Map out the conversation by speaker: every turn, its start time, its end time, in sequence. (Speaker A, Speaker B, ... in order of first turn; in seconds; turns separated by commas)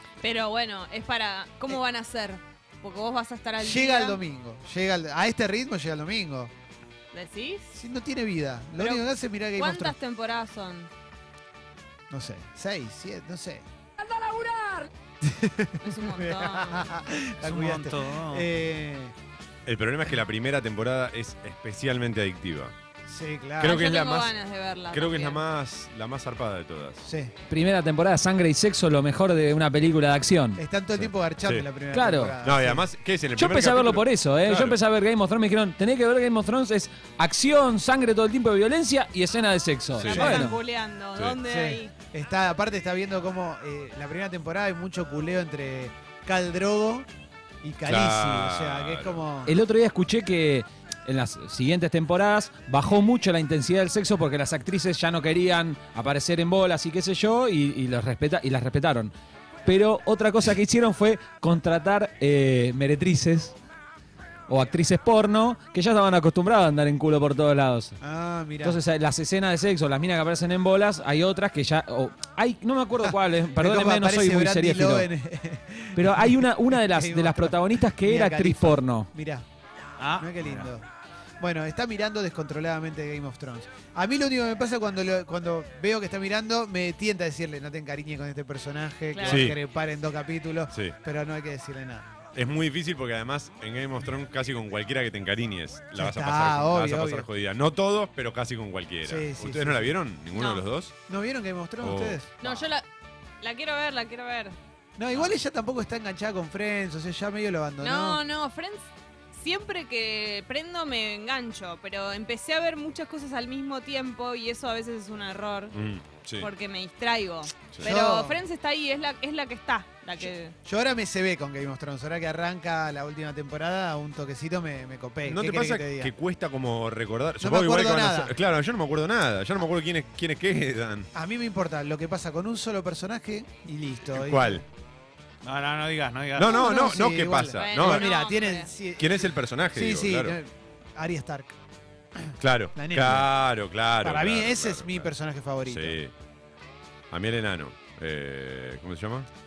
Speaker A: 0.2-4.2, Speaker B: 3.6-6.5, Speaker A: 7.1-7.7, Speaker B: 7.7-9.9, Speaker A: 8.8-10.9, Speaker B: 12.1-13.7, Speaker A: 14.0-14.9, Speaker B: 15.2-19.1, Speaker A: 15.8-16.9, Speaker C: 17.4-18.4, Speaker D: 19.6-22.7, Speaker B: 23.1-23.8, Speaker D: 23.6-24.3, Speaker A: 23.6-25.4, Speaker D: 24.9-27.0, Speaker B: 27.0-27.3, Speaker E: 27.5-30.6, Speaker B: 30.6-32.9, Speaker D: 30.9-31.7, Speaker E: 31.9-32.4, Speaker D: 32.4-34.8, Speaker E: 33.3-40.5, Speaker D: 40.0-40.5, Speaker A: 40.0-41.9, Speaker B: 40.1-40.5, Speaker B: 41.4-47.1, Speaker B: 47.6-49.6, Speaker D: 47.8-49.2, Speaker E: 49.5-59.1, Speaker E: 59.6-63.5, Speaker E: 64.5-68.0, Speaker B: 68.0-68.8, Speaker E: 68.6-75.1, Speaker B: 73.1-79.5, Speaker E: 76.0-79.1, Speaker C: 80.0-80.7, Speaker B: 80.2-80.8, Speaker B: 81.4-92.1, Speaker A: 89.1-89.5, Speaker D: 89.3-89.6, Speaker D: 92.3-100.9, Speaker B: 96.0-97.3, Speaker B: 99.0-99.9, Speaker A: 100.3-100.6, Speaker B: 101.1-102.3, Speaker D: 101.8-102.2, Speaker A: 102.4-102.8, Speaker A: 103.4-104.5, Speaker B: 105.0-108.2, Speaker A: 107.8-115.7, Speaker D: 115.7-116.5, Speaker A: 116.4-120.5, Speaker B: 117.8-118.4, Speaker B: 120.2-126.1, Speaker D: 125.2-131.1, Speaker B: 127.4-128.3, Speaker B: 131.1-134.6, Speaker D: 134.1-134.6, Speaker C: 135.4-136.6, Speaker D: 136.3-138.1, Speaker B: 136.4-141.5, Speaker A: 137.5-138.7, Speaker D: 139.0-140.3, Speaker B: 142.2-143.3, Speaker D: 142.4-145.1, Speaker B: 144.0-146.0, Speaker D: 145.7-146.1, Speaker D: 147.1-149.3